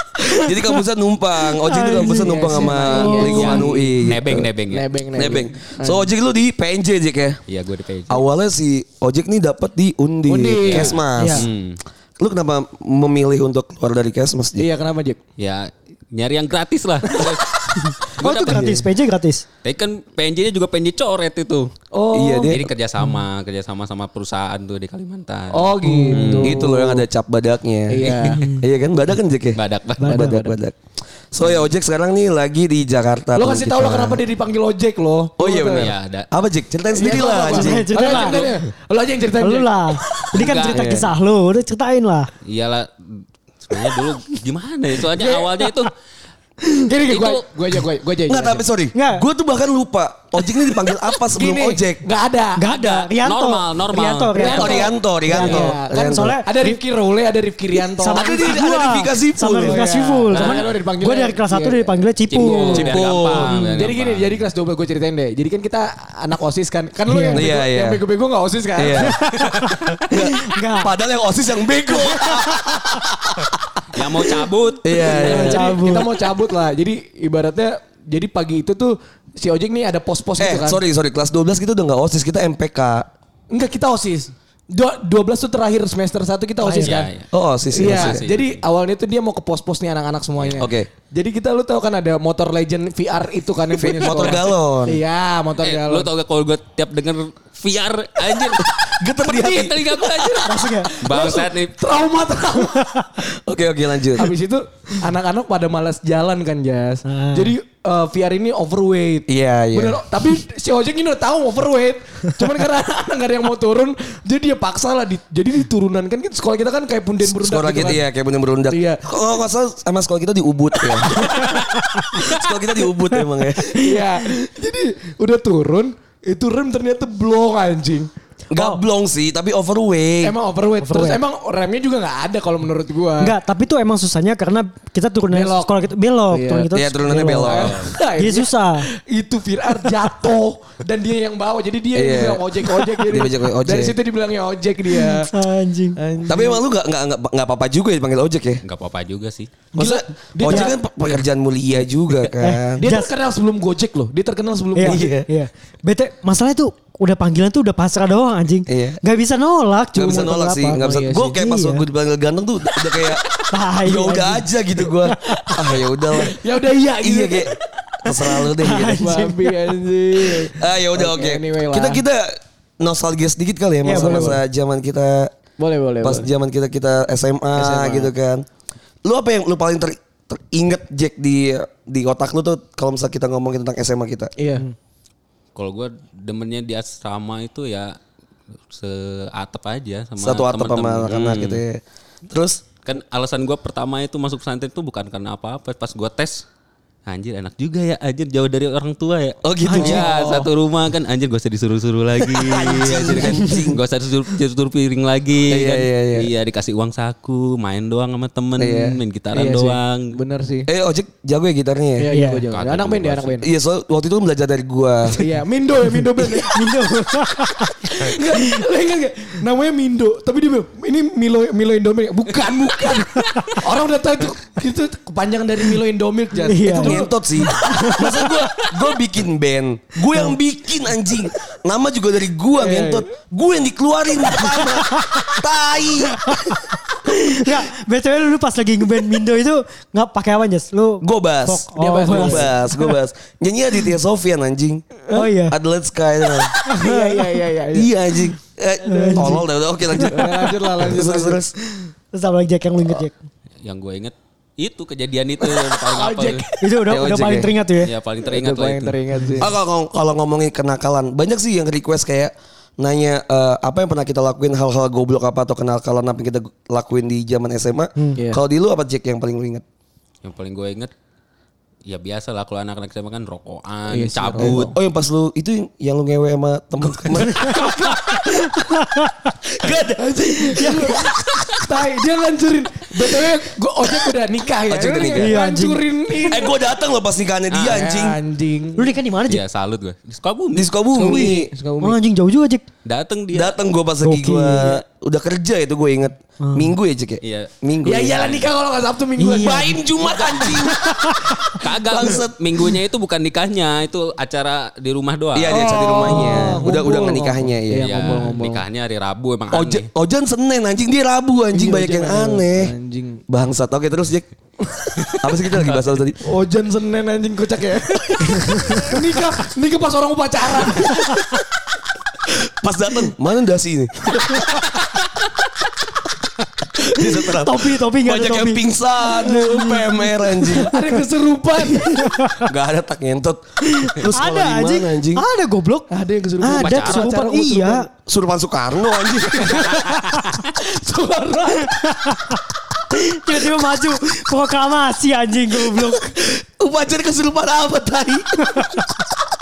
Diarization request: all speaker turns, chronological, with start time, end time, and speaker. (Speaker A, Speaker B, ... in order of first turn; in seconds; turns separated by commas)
Speaker A: 0.3-4.5, Speaker B: 1.6-3.7, Speaker C: 1.9-4.0, Speaker D: 3.2-4.9, Speaker C: 4.7-6.1, Speaker A: 5.1-7.4, Speaker D: 7.5-8.2, Speaker A: 8.1-11.5, Speaker C: 10.3-11.0, Speaker D: 10.6-11.8, Speaker B: 11.2-11.4, Speaker A: 12.2-14.7, Speaker C: 14.6-15.2, Speaker D: 15.4-18.8, Speaker B: 18.2-19.4, Speaker C: 18.5-18.8, Speaker D: 19.6-21.7, Speaker C: 21.9-22.6, Speaker A: 22.1-22.7, Speaker D: 22.5-26.7, Speaker C: 25.5-27.0, Speaker B: 25.8-26.4, Speaker A: 26.4-30.8, Speaker C: 27.9-28.5, Speaker B: 28.4-28.6, Speaker D: 29.6-30.4, Speaker B: 30.0-30.5, Speaker A: 31.3-34.2, Speaker D: 31.4-31.7, Speaker C: 33.4-35.9, Speaker A: 35.4-37.9, Speaker D: 35.7-36.3, Speaker C: 37.0-39.7, Speaker B: 37.0-38.4, Speaker D: 38.0-38.6, Speaker B: 39.4-42.3, Speaker D: 40.3-40.8, Speaker A: 40.5-41.1, Speaker D: 42.4-45.9, Speaker C: 45.1-45.6, Speaker B: 46.6-46.9, Speaker C: 46.9-48.7, Speaker D: 47.0-47.5, Speaker A: 48.3-52.0, Speaker B: 48.9-49.3, Speaker C: 51.3-52.7, Speaker B: 52.6-56.8, Speaker D: 52.7-55.7, Speaker C: 54.4-58.6, Speaker A: 54.4-56.4, Speaker B: 58.0-62.9, Speaker A: 58.0-59.9, Speaker C: 59.6-69.5, Speaker D: 60.3-60.8, Speaker D: 62.3-64.4, Speaker A: 62.8-63.6, Speaker B: 67.1-67.5, Speaker A: 67.3-68.0, Speaker A: 68.8-73.6, Speaker B: 69.0-70.9, Speaker B: 72.1-72.6, Speaker D: 73.9-75.8, Speaker A: 74.8-75.8, Speaker B: 75.2-76.1, Speaker C: 75.2-80.8, Speaker A: 80.4-83.1, Speaker C: 83.5-87.1, Speaker B: 86.6-87.0, Speaker D: 86.8-88.6, Speaker A: 87.3-88.2, Speaker C: 87.7-96.1, Speaker D: 90.4-90.7, Speaker A: 90.6-90.9, Speaker A: 93.7-95.0, Speaker D: 93.8-94.5, Speaker D: 95.6-101.8, Speaker A: 98.6-100.4, Speaker C: 100.1-103.0, Speaker B: 100.5-100.9, Speaker B: 102.6-103.0, Speaker A: 103.2-104.3, Speaker C: 104.1-118.0, Speaker B: 107.1-107.5, Speaker A: 109.3-110.1, Speaker A: 117.2-121.5, Speaker C: 118.7-119.0, Speaker C: 121.1-121.5, Speaker A: 122.1-123.9, Speaker C: 123.7-128.1, Speaker A: 128.5-130.4, Speaker C: 130.2-133.4, Speaker B: 130.8-131.2, Speaker B: 133.2-137.6, Speaker C: 135.3-135.8, Speaker C: 136.3-136.7, Speaker A: 136.7-137.9, Speaker C: 137.4-145.3, Speaker D: 137.5-137.9, Speaker B: 138.2-138.9, Speaker A: 141.9-142.5, Speaker A: 143.0-144.0, Speaker B: 144.9-146.0, Speaker C: 146.0-146.6, Speaker A: 146.2-148.6, Speaker D: 148.6-149.5, Speaker A: 149.8-152.8, Speaker C: 149.8-151.2, Speaker B: 150.4-150.7, Speaker B: 152.4-153.1, Speaker C: 152.8-155.1, Speaker B: 154.8-161.8, Speaker A: 154.8-155.3, Speaker A: 158.7-159.0, Speaker A: 159.9-163.2, Speaker C: 160.7-161.4, Speaker C: 162.9-163.2, Speaker B: 163.5-164.5, Speaker A: 163.8-166.4, Speaker C: 165.2-167.6, Speaker A: 167.0-167.5, Speaker A: 168.0-169.2, Speaker B: 168.3-170.5, Speaker C: 168.6-172.0, Speaker A: 170.6-175.3, Speaker B: 173.8-174.4, Speaker C: 173.9-174.4, Speaker C: 175.6-176.3, Speaker A: 176.0-178.4, Speaker C: 177.6-178.1, Speaker A: 179.1-184.3, Speaker C: 184.4-184.7, Speaker D: 185.6-188.0, Speaker D: 188.7-191.6, Speaker A: 190.2-192.6, Speaker D: 192.8-196.4, Speaker D: 197.1-210.2, Speaker A: 199.4-200.5, Speaker C: 199.7-200.5, Speaker A: 202.3-203.8, Speaker A: 205.5-206.3, Speaker A: 208.6-209.0, Speaker C: 209.3-210.7, Speaker A: 210.7-212.1, Speaker C: 212.0-213.5, Speaker B: 212.1-212.4, Speaker D: 212.5-213.4, Speaker A: 213.4-215.2, Speaker C: 215.2-216.7, Speaker B: 216.4-218.6, Speaker C: 217.9-227.9, Speaker D: 222.4-223.1, Speaker B: 223.1-223.6, Speaker B: 226.5-228.3, Speaker A: 226.7-236.8, Speaker C: 232.6-233.1, Speaker B: 234.8-235.3, Speaker B: 237.1-242.9, Speaker A: 241.0-244.8, Speaker C: 241.7-242.5, Speaker B: 245.1-245.6, Speaker A: 245.5-246.6, Speaker C: 246.6-247.9, Speaker B: 246.7-247.2, Speaker A: 247.7-251.5, Speaker B: 248.8-250.1, Speaker C: 248.9-249.4, Speaker C: 249.9-251.4, Speaker B: 251.7-253.1, Speaker D: 253.6-256.5, Speaker C: 255.4-256.7, Speaker B: 256.6-257.9, Speaker A: 256.9-257.6, Speaker D: 257.8-259.0, Speaker C: 258.2-259.5, Speaker A: 259.4-269.6, Speaker D: 270.2-270.9, Speaker D: 271.9-274.7, Speaker C: 273.9-274.8, Speaker A: 274.4-278.4, Speaker B: 278.5-279.3, Speaker A: 279.4-281.5, Speaker C: 280.0-286.6, Speaker B: 280.6-281.0, Speaker A: 284.7-285.4, Speaker B: 285.1-286.2, Speaker A: 286.2-288.2, Speaker D: 287.5-287.9, Speaker C: 287.6-289.0, Speaker B: 288.8-289.4, Speaker D: 289.3-290.7, Speaker A: 290.5-291.5, Speaker C: 290.9-292.0, Speaker B: 291.8-292.6, Speaker D: 292.9-293.6, Speaker A: 293.3-298.3, Speaker B: 294.0-294.8, Speaker B: 296.4-296.7, Speaker D: 297.2-297.5, Speaker C: 297.9-299.8, Speaker D: 298.0-298.5, Speaker B: 299.2-299.8, Speaker A: 299.4-300.9, Speaker D: 300.0-300.7, Speaker B: 300.8-301.4, Speaker D: 301.5-305.9, Speaker A: 301.7-302.4, Speaker A: 305.3-308.2, Speaker C: 305.5-308.6, Speaker B: 306.1-306.6, Speaker D: 307.7-309.9, Speaker A: 309.5-312.7, Speaker C: 311.5-313.2, Speaker A: 313.3-314.3, Speaker C: 314.7-315.1, Speaker A: 315.1-316.2, Speaker D: 315.6-315.9, Speaker C: 316.2-321.2, Speaker B: 318.5-319.0, Speaker A: 322.3-324.4, Speaker A: 326.8-330.8, Speaker B: 326.9-330.8, Speaker C: 330.5-332.2, Speaker B: 332.0-332.5, Speaker A: 332.4-335.2, Speaker B: 333.6-335.9, Speaker C: 335.9-337.9, Speaker B: 336.4-337.9, Speaker D: 336.6-337.1, Speaker A: 338.1-339.7, Speaker C: 339.3-341.8, Speaker B: 341.7-342.4, Speaker B: 342.9-346.1, Speaker A: 345.7-349.0, Speaker B: 348.5-348.8